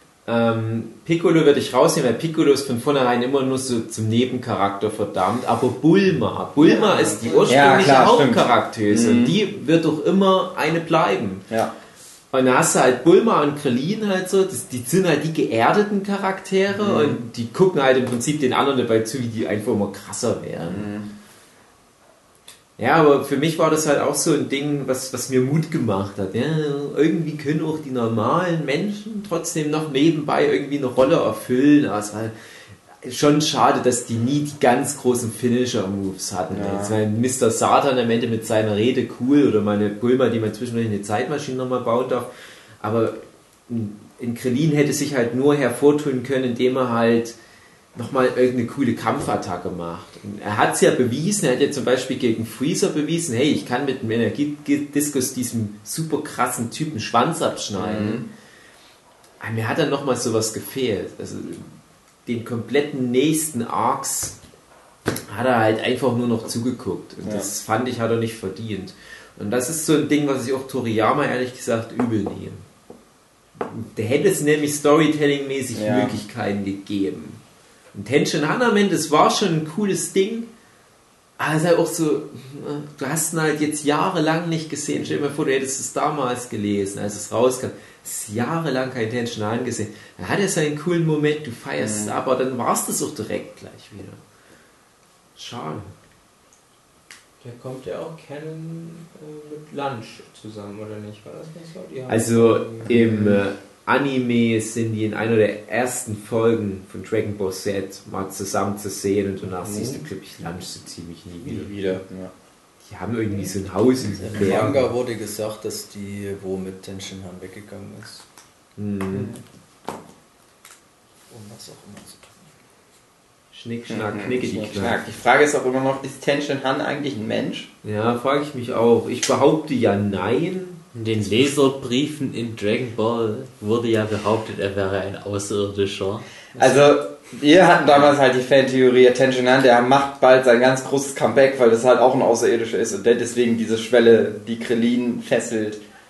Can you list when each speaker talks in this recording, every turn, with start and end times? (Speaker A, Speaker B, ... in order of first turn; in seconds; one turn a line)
Speaker A: 0.2-11.4
Speaker B: 6.6-7.7
Speaker C: 7.5-9.4
Speaker A: 12.3-20.9
Speaker C: 16.7-17.2
Speaker C: 20.7-21.1
Speaker A: 22.8-32.3
Speaker A: 33.0-42.3
Speaker C: 36.5-37.0
Speaker A: 42.8-47.4
Speaker A: 47.9-58.2
Speaker C: 57.8-58.3
Speaker A: 59.4-61.7
Speaker A: 62.2-64.4
Speaker A: 65.3-72.6
Speaker C: 67.2-67.5
Speaker A: 73.6-77.4
Speaker C: 75.7-76.2
Speaker A: 77.9-80.5
Speaker A: 81.4-94.2
Speaker C: 91.8-92.2
Speaker A: 95.4-95.9
Speaker B: 97.4-102.9
Speaker A: 102.1-111.8
Speaker C: 102.9-103.4
Speaker B: 109.5-110.1
Speaker C: 111.5-112.3
Speaker A: 112.8-114.9
Speaker D: 113.8-118.2
Speaker A: 118.8-119.3
Speaker D: 121.3-122.5
Speaker A: 123.5-125.0
Speaker C: 123.9-127.7
Speaker A: 127.8-130.8
Speaker E: 130.9-136.2
Speaker C: 136.6-145.8